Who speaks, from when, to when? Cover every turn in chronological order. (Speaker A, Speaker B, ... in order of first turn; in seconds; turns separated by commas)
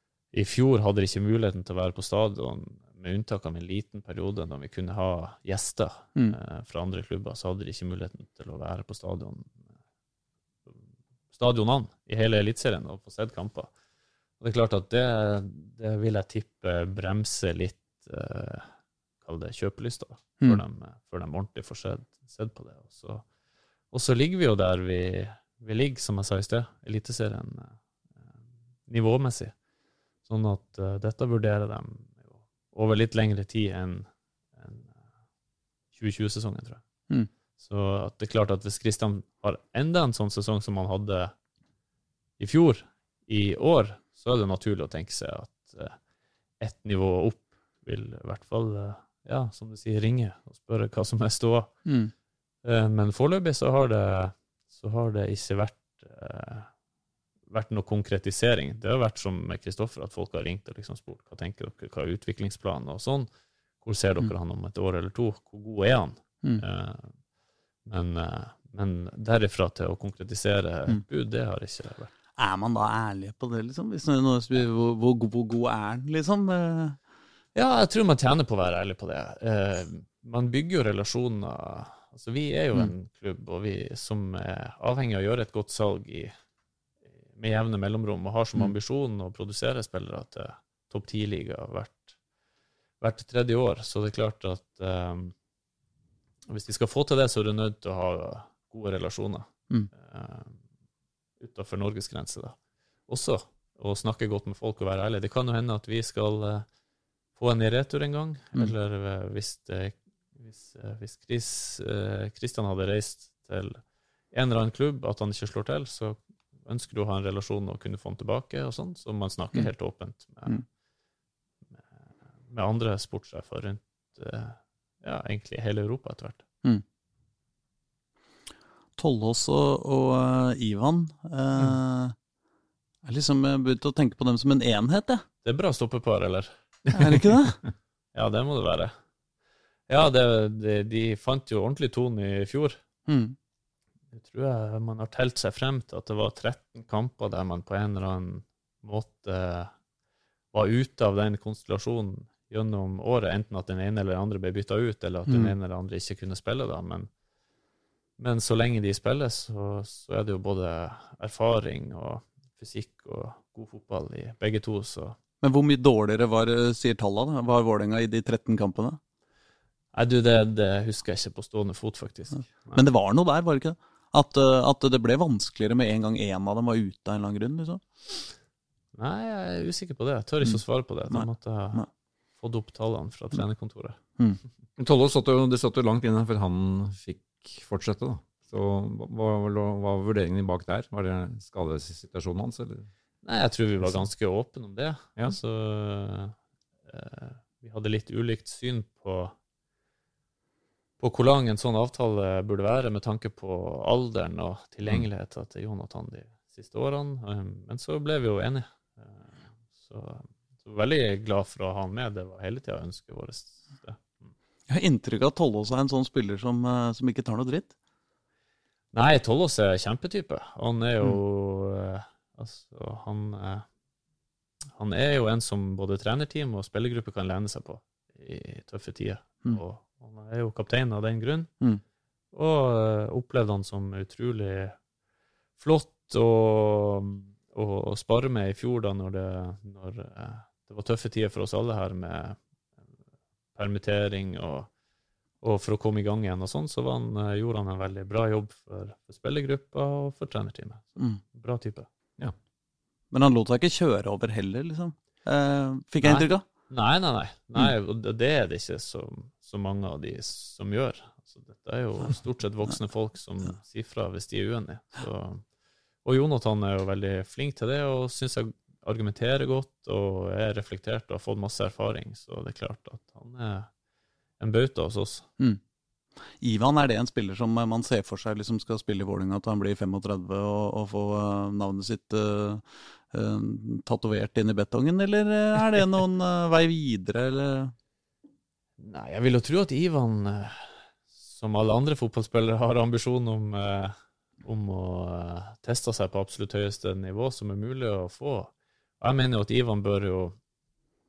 Speaker A: 0.3-9.6, Speaker A: 11.3-13.7, Speaker A: 14.4-18.7, Speaker A: 19.2-23.2, Speaker A: 23.9-27.8, Speaker A: 28.9-29.5, Speaker A: 30.3-32.2, Speaker A: 32.7-34.9, Speaker A: 36.0-36.8, Speaker A: 37.6-41.3, Speaker A: 42.4-46.0, Speaker A: 46.6-51.7, Speaker B: 51.9-52.1, Speaker A: 52.6-56.7, Speaker A: 57.5-63.3, Speaker A: 63.8-67.1, Speaker A: 67.9-72.1, Speaker B: 72.4-77.0, Speaker A: 77.5-86.3, Speaker A: 87.4-92.1, Speaker A: 93.0-95.3, Speaker A: 96.5-100.6, Speaker A: 101.4-102.6, Speaker A: 103.1-106.7, Speaker A: 107.4-113.8, Speaker A: 114.3-120.6, Speaker A: 122.5-126.5, Speaker B: 129.0-132.2, Speaker B: 133.1-135.2, Speaker A: 135.4-136.5, Speaker B: 136.9-137.6, Speaker A: 138.1-138.9, Speaker A: 139.9-142.8, Speaker B: 143.1-143.4, Speaker A: 144.1-149.7, Speaker A: 150.5-157.1, Speaker B: 155.3-155.5, Speaker A: 158.2-165.2, Speaker B: 165.4-169.0, Speaker A: 169.9-172.8, Speaker B: 172.3-177.8, Speaker A: 178.9-181.8, Speaker B: 180.4-181.9, Speaker A: 182.4-184.0, Speaker C: 184.8-192.9, Speaker A: 193.2-196.3, Speaker A: 196.9-199.3, Speaker A: 201.0-209.3, Speaker A: 209.8-214.2, Speaker B: 214.7-217.7, Speaker A: 218.9-223.7, Speaker A: 224.7-231.5, Speaker A: 232.3-234.8, Speaker A: 235.6-242.4, Speaker A: 243.6-244.7, Speaker A: 245.4-251.9, Speaker B: 253.1-256.4, Speaker A: 256.0-265.4, Speaker A: 266.1-273.7, Speaker A: 274.4-275.3, Speaker B: 276.4-287.7, Speaker A: 288.8-290.7, Speaker A: 291.3-300.4